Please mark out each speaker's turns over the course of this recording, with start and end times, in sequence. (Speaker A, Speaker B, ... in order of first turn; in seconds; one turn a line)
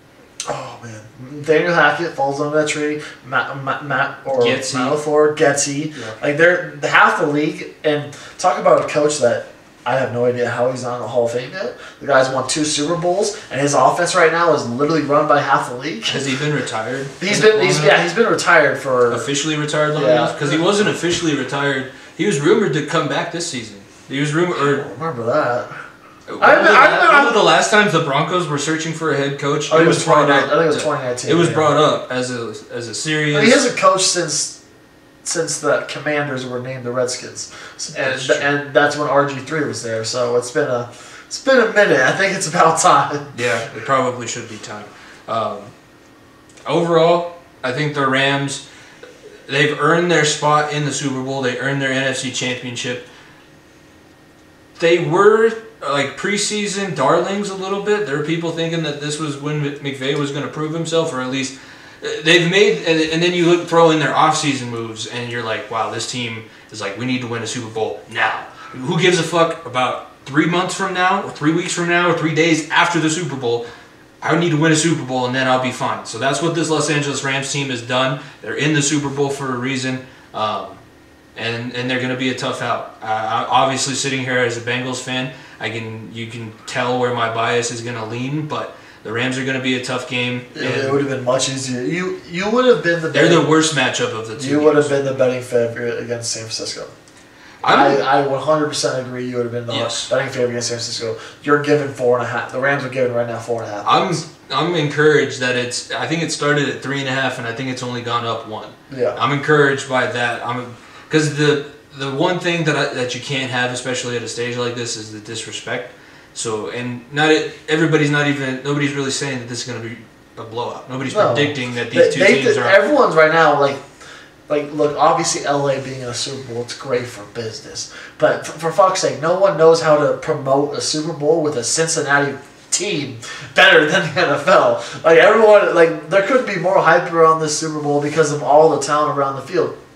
Speaker A: 0.5-16.2
Speaker B: 4.3-5.0
Speaker B: 16.1-18.0
Speaker A: 17.2-19.3
Speaker B: 19.1-24.9
Speaker A: 19.9-20.6
Speaker A: 24.6-25.7
Speaker B: 26.3-33.7
Speaker A: 26.4-27.4
Speaker A: 29.7-31.7
Speaker A: 33.3-34.6
Speaker A: 35.2-43.3
Speaker B: 37.9-38.5
Speaker B: 43.3-45.7
Speaker B: 46.7-48.6
Speaker B: 49.5-53.1
Speaker B: 54.8-73.6
Speaker B: 74.2-80.8
Speaker B: 81.3-91.0
Speaker A: 90.5-93.5
Speaker B: 93.1-95.1
Speaker A: 94.4-96.9
Speaker B: 97.6-98.0
Speaker A: 97.7-104.2
Speaker B: 99.7-100.1
Speaker B: 103.8-122.8
Speaker A: 108.9-109.2
Speaker A: 121.1-123.8
Speaker A: 124.5-139.8